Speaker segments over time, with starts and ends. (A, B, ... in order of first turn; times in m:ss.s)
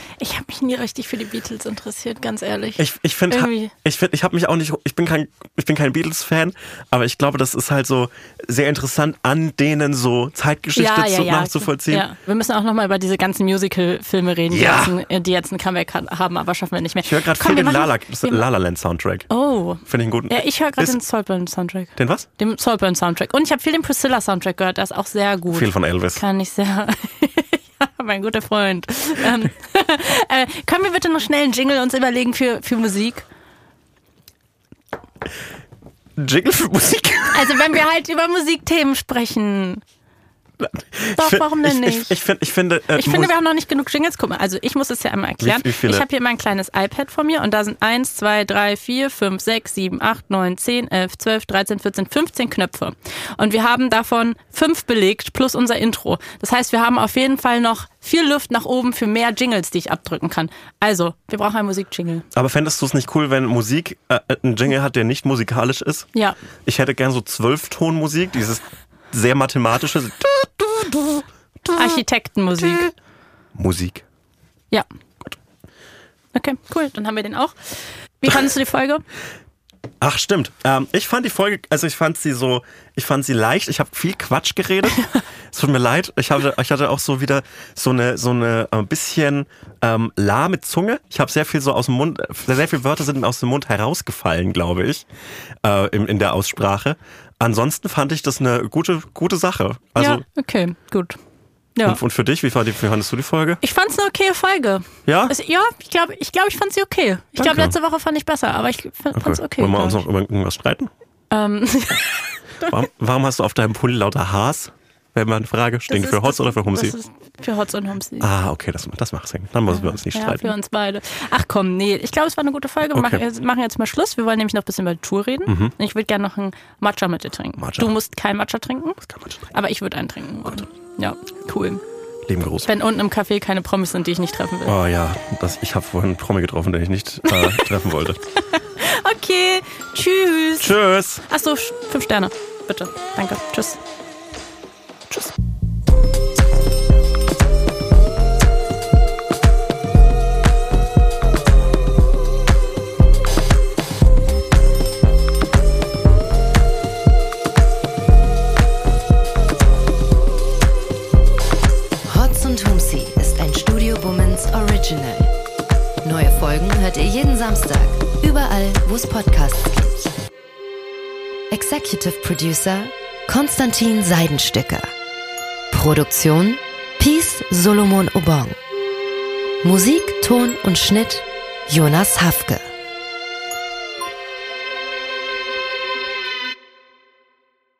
0:00.2-0:03.7 A
0:02.8-0:12.1 B
0:10.7-0:18.4 A
0:14.5-0:14.9 B
0:17.0-0:19.3 B
0:19.3-0:33.2 A
0:19.8-0:21.0 B
0:22.0-0:22.3 B
0:25.5-0:26.2 B
0:36.2-0:37.6 B
0:37.3-0:39.8 A
0:40.6-0:43.3 B
0:41.1-0:42.1 A
0:42.9-1:02.2 A
0:45.4-0:46.0 B
1:02.3-1:06.1 B
1:06.6-1:12.0 B
1:11.7-1:12.9 A
1:12.6-1:12.9 B
1:13.5-1:14.0 B
1:16.3-1:19.0 A
1:20.0-1:35.1 B
1:35.6-1:40.2 B
1:40.0-1:41.2 A
1:41.8-1:43.6 B
1:43.6-1:50.0 A
1:45.0-1:45.3 B
1:47.4-1:47.7 B
1:49.1-1:50.9 B
1:51.3-1:52.8 A
1:52.7-1:56.9 B
1:55.9-1:58.3 A
1:58.2-2:00.5 B
1:59.7-2:09.0 A
2:02.9-2:03.2 B
2:05.5-2:05.7 B
2:07.6-2:07.9 B
2:09.0-2:09.4 B
2:09.5-2:11.8 A
2:12.3-2:12.7 B
2:12.6-2:14.7 A
2:14.6-2:18.2 B
2:17.3-2:17.6 A
2:18.5-2:20.7 A
2:20.6-2:21.2 B
2:21.3-2:23.8 A
2:42.0-2:45.3 C
2:46.0-2:50.1 C
2:51.5-2:54.9 C
2:55.7-2:58.6 C
2:59.6-3:02.6 C